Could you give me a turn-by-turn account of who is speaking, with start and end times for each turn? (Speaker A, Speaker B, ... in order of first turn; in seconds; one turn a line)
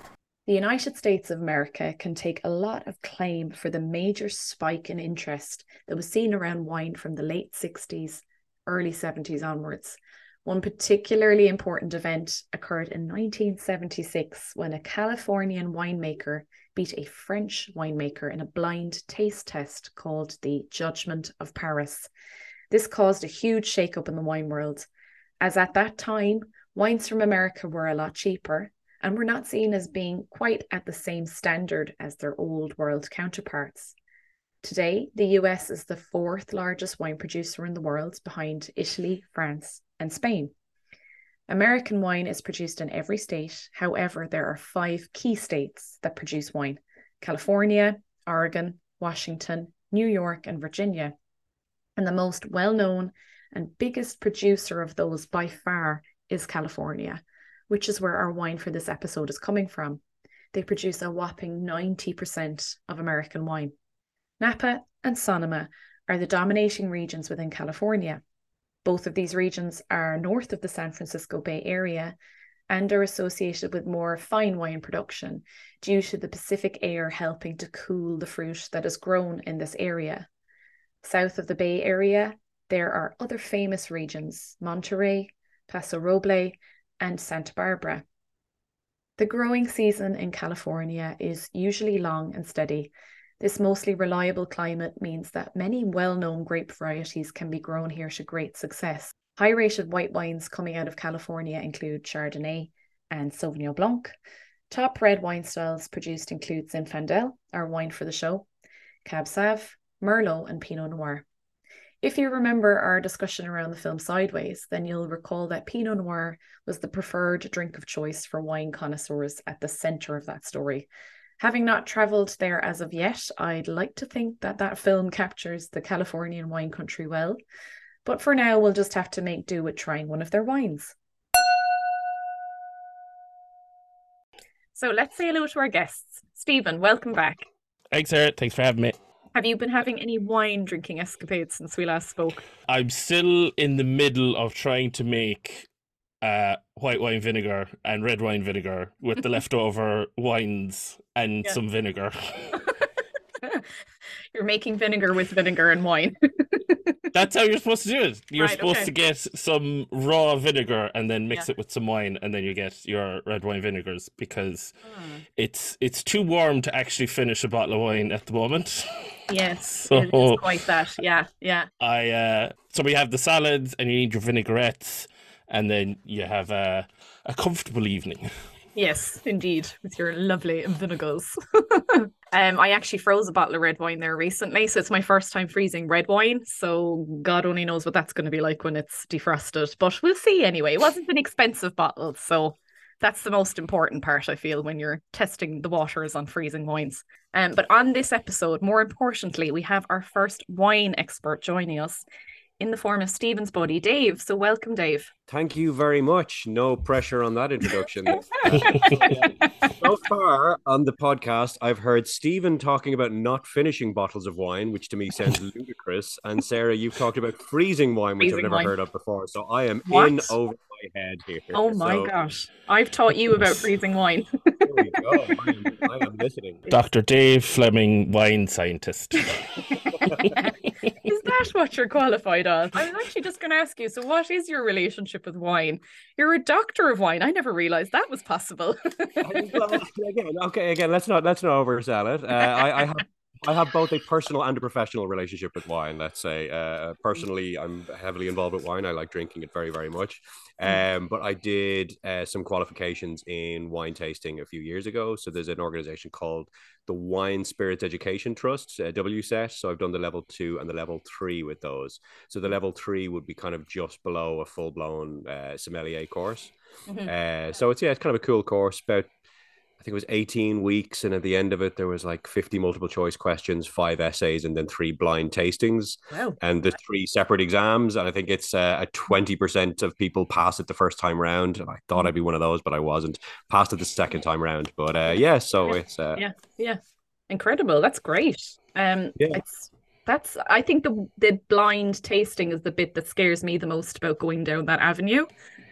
Speaker A: 0.5-22.1
Speaker A: 22.7-24.9
Speaker A: 25.4-34.0
Speaker A: 34.6-40.5
Speaker A: 41.5-51.1
Speaker A: 52.0-60.0
Speaker A: 60.5-63.7
Speaker A: 64.4-68.2
Speaker A: 68.8-72.2
Speaker A: 72.7-80.3
Speaker A: 81.0-88.0
Speaker A: 89.2-104.1
Speaker A: 104.7-108.5
Speaker A: 109.0-111.3
Speaker A: 112.0-120.9
Speaker A: 121.4-127.4
Speaker A: 128.1-130.9
Speaker A: 134.8-137.5
Speaker B: 137.9-138.9
Speaker A: 139.3-142.4
Speaker B: 142.7-145.7
Speaker B: 146.2-152.6
Speaker A: 153.4-153.7
Speaker A: 154.3-157.1
Speaker B: 157.1-164.7
Speaker A: 158.4-158.9
Speaker A: 164.9-165.2
Speaker B: 165.4-169.0
Speaker A: 169.3-171.7
Speaker B: 169.9-170.5
Speaker B: 171.8-178.3
Speaker A: 178.8-202.1
Speaker A: 202.6-205.1
Speaker C: 205.3-222.1
Speaker A: 208.1-209.7
Speaker A: 218.2-218.7
Speaker A: 219.9-220.4
Speaker A: 221.5-225.2
Speaker C: 224.6-226.7
Speaker B: 226.7-229.6
Speaker A: 229.6-239.8
Speaker C: 239.2-266.5
Speaker C: 267.1-269.1
Speaker C: 269.8-286.2
Speaker A: 276.1-276.4
Speaker A: 285.6-295.3